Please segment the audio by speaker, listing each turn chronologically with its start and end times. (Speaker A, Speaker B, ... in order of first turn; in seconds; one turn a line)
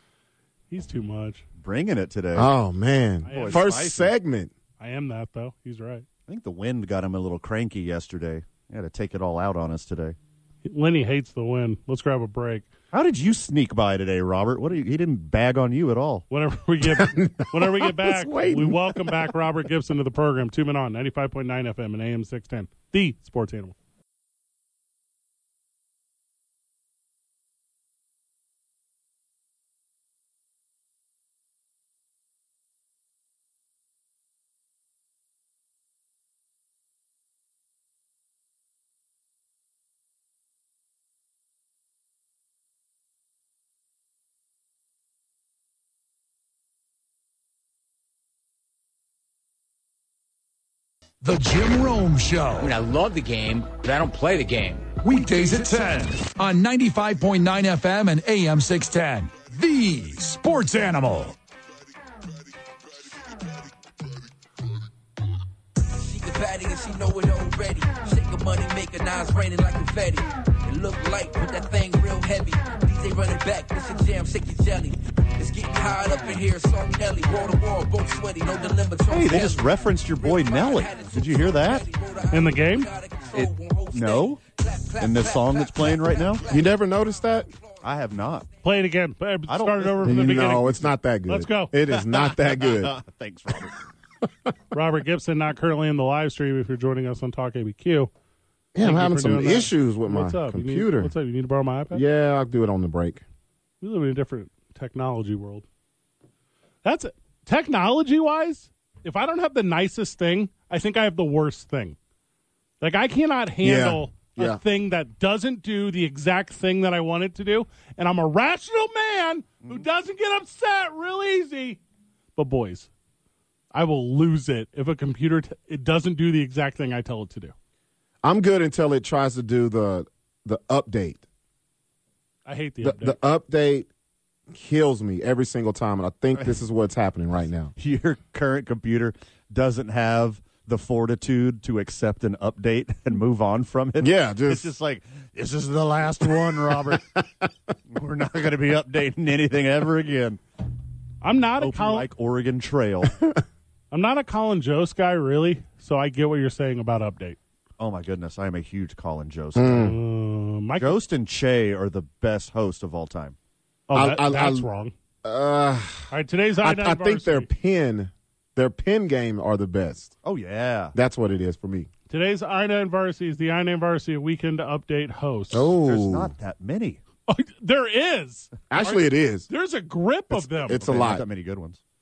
Speaker A: 0.7-1.4
Speaker B: 1.6-2.5
Speaker C: 2.4-4.5
Speaker A: 3.2-3.7
Speaker B: 3.3-4.1
Speaker A: 4.8-6.0
Speaker B: 6.3-10.2
Speaker A: 10.6-12.7
Speaker B: 12.9-16.2
Speaker A: 16.3-23.8
Speaker C: 16.8-19.3
Speaker D: 51.2-52.7
Speaker E: 52.6-54.9
Speaker D: 55.0-61.4
Speaker F: 65.8-87.8
Speaker B: 79.1-81.8
Speaker A: 82.3-82.9
Speaker B: 83.3-84.4
Speaker B: 85.0-86.4
Speaker C: 86.5-87.5
Speaker B: 87.8-88.5
Speaker A: 88.6-91.7
Speaker B: 89.5-90.4
Speaker C: 90.0-92.9
Speaker B: 91.9-93.8
Speaker A: 94.7-98.1
Speaker C: 98.8-101.1
Speaker A: 98.8-102.0
Speaker C: 101.9-103.2
Speaker A: 103.8-105.7
Speaker A: 106.8-112.0
Speaker A: 112.8-121.8
Speaker C: 113.6-114.6
Speaker A: 122.4-122.9
Speaker A: 123.7-127.5
Speaker C: 128.2-131.2
Speaker A: 132.5-133.2
Speaker C: 132.8-133.9
Speaker C: 134.5-137.7
Speaker B: 137.8-147.2
Speaker C: 144.0-144.7
Speaker B: 147.9-150.4
Speaker A: 151.2-152.1
Speaker B: 151.6-153.2
Speaker A: 153.9-157.4
Speaker B: 157.8-159.9
Speaker C: 159.6-160.0
Speaker A: 159.7-161.0
Speaker B: 160.8-163.4
Speaker A: 163.9-164.9
Speaker C: 163.9-164.7
Speaker C: 165.2-170.2
Speaker A: 166.1-167.5
Speaker B: 170.2-170.9
Speaker C: 170.9-171.9
Speaker A: 172.1-175.8
Speaker C: 175.5-176.3
Speaker B: 175.8-177.0
Speaker A: 177.3-180.9
Speaker C: 178.7-179.5
Speaker C: 180.3-181.2
Speaker B: 180.8-181.8